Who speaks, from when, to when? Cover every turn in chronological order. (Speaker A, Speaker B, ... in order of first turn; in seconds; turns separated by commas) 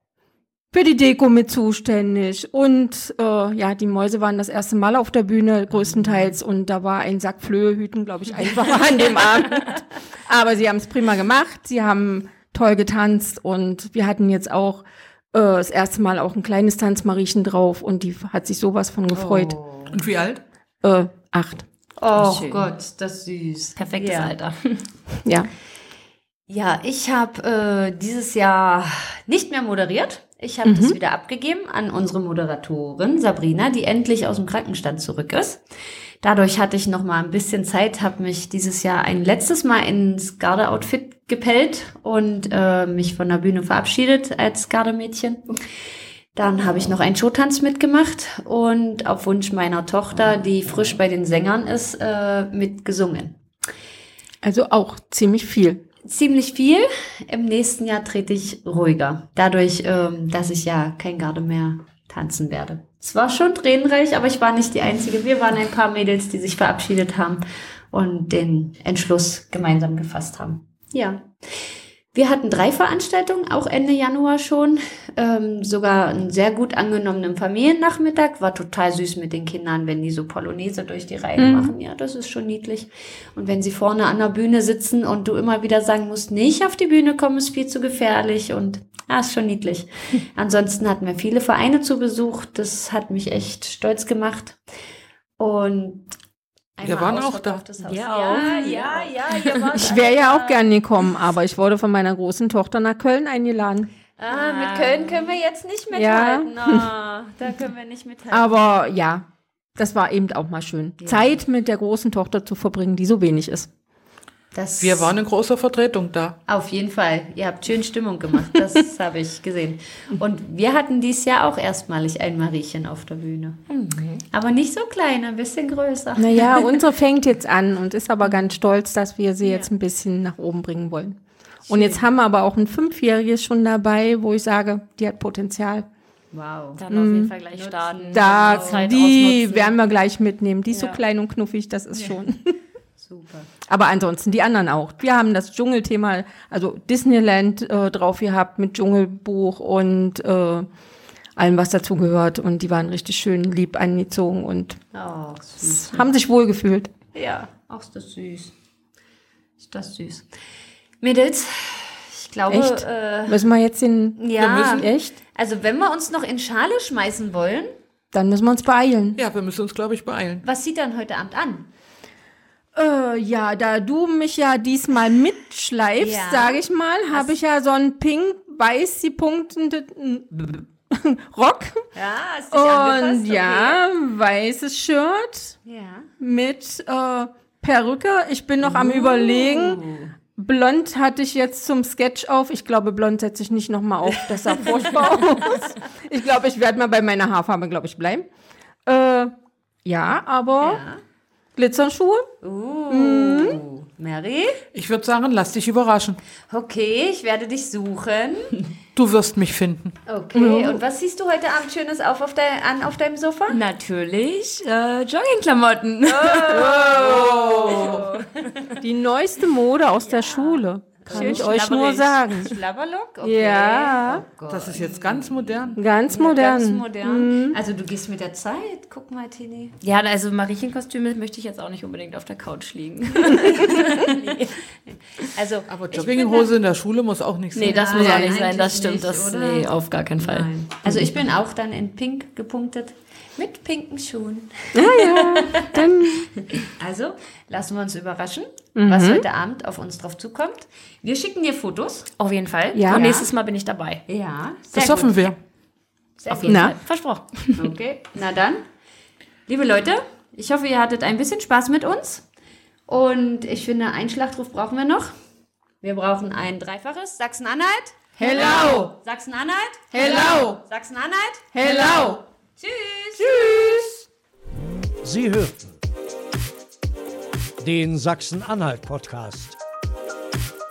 Speaker A: 0.7-19.6, Speaker B: 19.1-20.0, Speaker C: 19.9-20.4, Speaker A: 20.8-21.7, Speaker B: 22.0-24.3, Speaker D: 22.1-22.7, Speaker D: 23.8-24.9, Speaker A: 25.2-25.5, Speaker B: 26.5-35.6, Speaker A: 30.6-31.0, Speaker B: 36.2-45.5, Speaker B: 46.4-53.4, Speaker A: 54.4-55.8, Speaker B: 56.0-71.4, Speaker B: 72.1-94.6, Speaker A: 81.4-81.7, Speaker B: 95.4-96.1, Speaker B: 96.8-100.6, Speaker C: 96.8-97.6, Speaker D: 97.8-100.1, Speaker A: 98.3-98.7, Speaker A: 99.8-103.9, Speaker B: 104.2-108.5, Speaker D: 104.3-105.4, Speaker A: 105.9-106.9, Speaker A: 108.3-113.7, Speaker B: 111.0-111.3, Speaker B: 114.5-115.1, Speaker C: 114.8-116.4, Speaker B: 116.5-123.6, Speaker D: 123.7-124.2, Speaker B: 124.3-126.5, Speaker A: 126.2-135.9, Speaker B: 131.7-132.1, Speaker B: 136.3-136.8, Speaker D: 136.8-139.8, Speaker A: 136.9-137.3, Speaker B: 137.5-138.9, Speaker A: 138.1-142.6, Speaker B: 140.7-141.0, Speaker B: 143.0-143.5, Speaker A: 143.7-150.7, Speaker A: 151.4-154.8, Speaker B: 154.9-156.1, Speaker A: 155.6-156.9, Speaker B: 157.1-158.6, Speaker B: 159.6-160.3, Speaker B: 161.0-163.5, Speaker A: 162.5-165.2, Speaker B: 164.2-167.7, Speaker C: 164.4-164.8, Speaker A: 168.1-169.2, Speaker C: 169.2-170.4, Speaker B: 170.4-171.7, Speaker A: 172.8-181.9, Speaker B: 176.0-177.3, Speaker B: 181.9-183.8, Speaker A: 182.5-185.6, Speaker B: 185.7-186.1, Speaker A: 186.2-189.8, Speaker B: 188.6-190.1, Speaker A: 190.4-198.3, Speaker A: 198.9-199.3, Speaker A: 199.8-200.8, Speaker B: 200.6-201.0, Speaker A: 201.6-202.3, Speaker B: 202.4-204.6, Speaker A: 202.9-203.6, Speaker C: 204.7-206.2, Speaker B: 206.5-208.6, Speaker C: 208.9-210.0, Speaker B: 210.1-213.6, Speaker A: 210.3-210.8, Speaker D: 213.5-217.1, Speaker B: 216.1-218.4, Speaker A: 216.6-217.0, Speaker C: 216.9-218.1, Speaker A: 217.5-217.8, Speaker D: 217.7-218.3, Speaker A: 218.8-222.6, Speaker B: 221.1-229.8, Speaker D: 221.1-222.1, Speaker A: 223.2-224.2, Speaker C: 224.5-225.8, Speaker A: 225.8-227.6, Speaker D: 229.8-234.6, Speaker B: 233.6-234.3, Speaker B: 234.9-236.5, Speaker C: 235.7-237.9, Speaker D: 237.5-240.5, Speaker B: 237.6-252.1, Speaker A: 238.0-238.3, Speaker A: 244.7-246.3, Speaker A: 248.8-249.2, Speaker D: 252.2-254.1, Speaker A: 252.7-253.3, Speaker B: 254.1-255.3, Speaker C: 254.7-255.4, Speaker B: 256.2-256.8, Speaker D: 256.3-257.7, Speaker A: 256.5-256.8, Speaker B: 257.6-258.6, Speaker B: 259.5-262.2, Speaker B: 262.9-265.1, Speaker B: 265.8-273.6, Speaker A: 268.2-268.9, Speaker A: 269.9-270.6, Speaker A: 271.5-272.2, Speaker A: 273.2-274.0, Speaker E: 275.0-275.8, Speaker E: 277.6-279.6